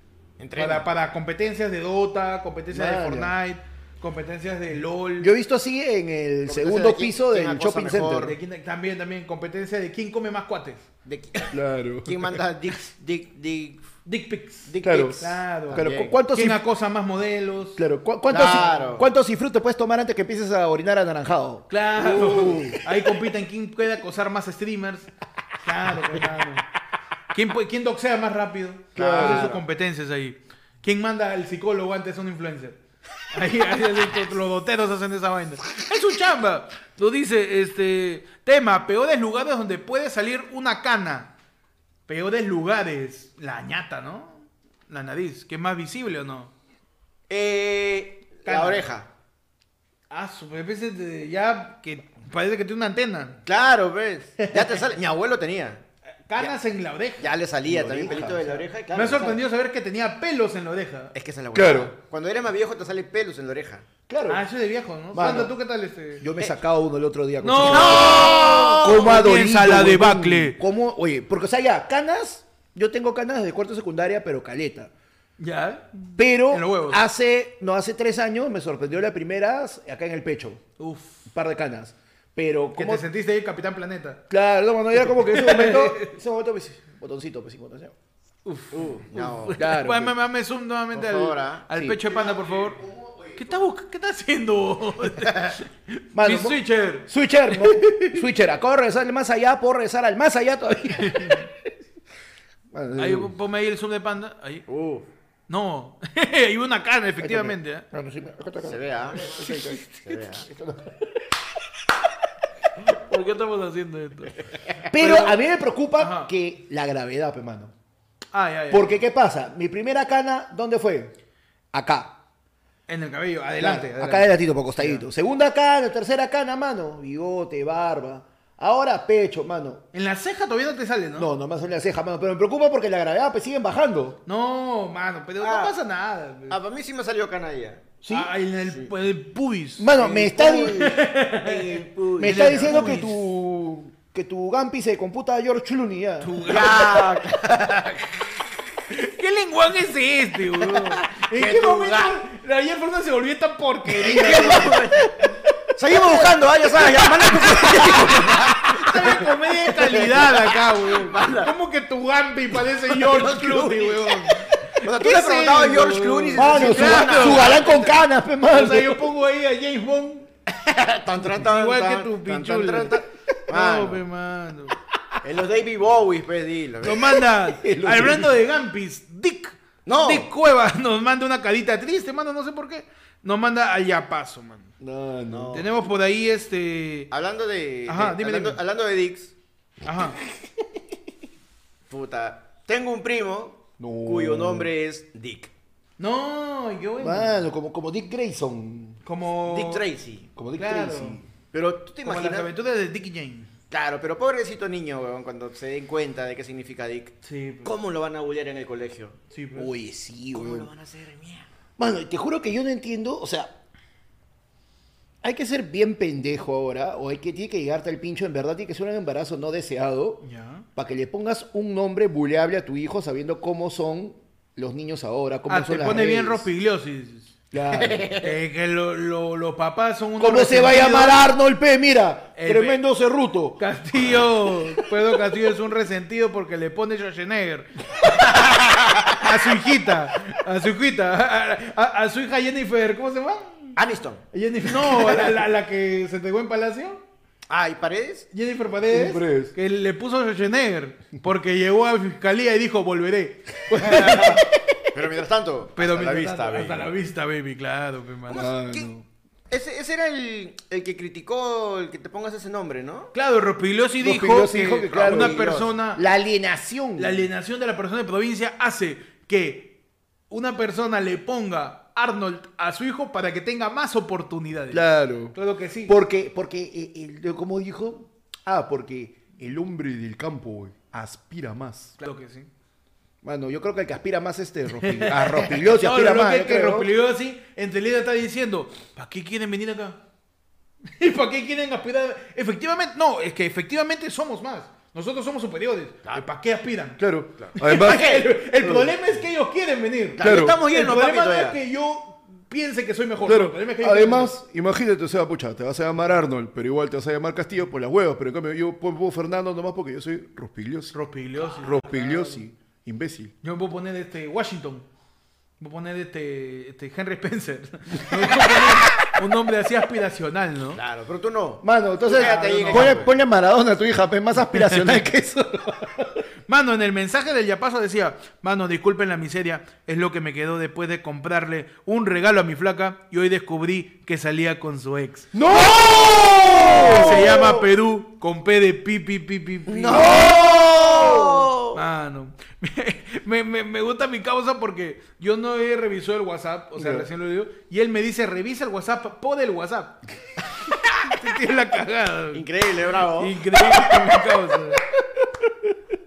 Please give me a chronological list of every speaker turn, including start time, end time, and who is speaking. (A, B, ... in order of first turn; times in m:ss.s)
0:00.4-0:00.8 A
0:00.6-0:05.3 B
0:02.7-0:03.3 C
0:05.2-0:08.3 C
0:06.5-0:08.4 A
0:08.2-0:10.8 B
0:11.0-0:13.8 A
0:11.5-0:12.4 C
0:14.0-0:17.8 B
0:14.7-0:16.1 A
0:14.8-0:16.6 C
0:17.8-0:22.9 C
0:18.3-0:19.0 A
0:21.7-0:25.1 B
0:25.6-0:26.6 B
0:27.3-0:32.8 B
0:28.9-0:29.6 A
0:29.0-0:29.5 C
0:33.3-0:41.3 B
0:42.1-0:46.5 B
0:47.3-0:49.1 A
0:48.4-0:48.9 B
0:50.1-0:53.4 B
0:53.4-0:55.8 A
0:54.4-0:54.7 B
0:56.3-0:57.3 B
0:57.2-0:59.4 A
0:57.6-0:58.6 C
0:58.1-1:01.1 B
1:01.1-1:03.8 A
1:01.5-1:01.9 C
1:04.1-1:04.4 C
1:04.3-1:06.2 B
1:05.1-1:05.5 C
1:06.2-1:14.9 C
1:07.4-1:10.6 B
1:07.7-1:09.1 A
1:15.4-1:17.0 B
1:16.2-1:20.6 C
1:20.8-1:21.2 B
1:21.3-1:23.0 C
1:22.7-1:24.2 B
1:24.3-1:27.9 C
1:25.0-1:26.1 B
1:28.4-1:32.8 B
1:28.7-1:29.6 A
1:29.6-1:30.2 C
1:30.9-1:31.7 A
1:31.7-1:33.4 C
1:33.3-1:38.2 B
1:36.1-1:41.5 C
1:41.0-1:41.4 B
1:42.7-1:43.3 C
1:43.0-1:44.6 B
1:44.7-1:45.1 A
1:45.5-1:47.8 B
1:47.2-1:51.1 C
1:48.6-1:49.4 A
1:49.4-1:50.1 B
1:50.0-1:50.5 A
1:52.8-1:54.4 B
1:54.9-1:57.7 C
1:54.9-1:55.4 B
1:56.0-1:56.3 B
1:58.3-1:59.0 B
1:58.7-2:01.1 C
2:01.7-2:02.2 C
2:02.9-2:05.0 B
2:03.6-2:09.8 C
2:09.9-2:11.3 B
2:11.2-2:14.2 C
2:14.2-2:16.6 B
2:15.4-2:15.8 A
2:16.5-2:17.9 A
2:18.0-2:18.3 C
2:18.1-2:23.2 B
2:19.8-2:21.0 C
2:20.0-2:22.9 A
2:22.2-2:26.6 C
2:26.2-2:27.1 B
2:26.4-2:28.3 A
2:28.9-2:35.0 B
2:30.6-2:32.2 A
2:33.9-2:41.5 A
2:37.0-2:38.6 C
2:38.7-2:47.9 B
2:42.9-2:47.9 A
2:46.3-2:49.1 C
2:48.5-2:50.3 B
2:50.6-2:54.0 A
2:51.3-2:54.7 B
2:55.2-2:57.2 A
2:56.8-3:04.7 B
2:57.4-2:58.4 C
2:59.8-3:00.3 A
3:04.8-3:05.6 C
3:05.3-3:05.7 A
3:05.5-3:07.1 B
3:07.1-3:09.3 A
3:07.9-3:08.6 B
3:09.8-3:10.2 B
3:11.9-3:15.5 A
3:13.8-3:14.7 C
3:16.0-3:17.3 B
3:17.0-3:19.0 C
3:19.0-3:19.8 B
3:19.4-3:20.3 A
3:20.4-3:21.3 C
3:20.6-3:21.2 B
3:21.5-3:22.5 A
3:22.0-3:23.5 B
3:23.7-3:29.2 A
3:27.2-3:27.7 B
3:29.3-3:29.7 B
3:29.6-3:30.7 C
3:30.3-3:31.5 A
3:31.8-3:33.5 C
3:35.2-3:40.2 C
3:40.2-3:40.6 B
3:40.8-3:46.4 C
3:45.5-3:47.3 B
3:47.5-3:48.1 C
3:47.7-3:48.3 A
3:48.2-3:51.3 B
3:50.2-3:53.6 C
3:52.4-3:52.8 B
3:53.6-3:57.7 B
3:58.3-3:59.1 A
3:59.1-4:03.8 B
4:03.8-4:04.2 A
4:04.3-4:07.0 B
4:07.5-4:08.3 A
4:08.3-4:14.5 B
4:08.9-4:09.5 C
4:13.9-4:14.4 A
4:14.9-4:16.9 A
4:15.8-4:18.5 B
4:18.3-4:18.9 A
4:18.3-4:19.0 C
4:19.5-4:23.1 A
4:23.1-4:26.0 B
4:24.0-4:27.3 C
4:24.9-4:25.8 A
4:27.0-4:29.7 B
4:30.3-4:35.9 B
4:34.7-4:42.0 C
4:42.0-4:42.5 B
4:43.2-4:46.9 C
4:44.7-4:50.0 B
4:51.0-4:57.0 B
4:57.0-4:58.9 C
4:57.4-4:58.2 A
4:57.6-5:04.3 B
5:00.2-5:01.6 A
5:00.2-5:00.6 C
5:03.2-5:13.3 C
5:10.9-5:12.4 B
5:13.4-5:14.9 B
5:15.6-5:20.8 B
5:20.7-5:23.1 A
5:21.6-5:26.2 C
5:22.1-5:23.0 B
5:24.4-5:25.0 B
5:26.5-5:35.3 B
5:35.3-5:37.6 C
5:35.8-5:37.1 A
5:36.8-5:40.3 B
5:39.7-5:41.8 A
5:39.9-5:41.5 C
5:41.7-5:50.0 B
5:46.8-5:47.1 C
5:51.0-5:52.4 B
5:52.3-5:53.4 A
5:53.2-5:54.8 B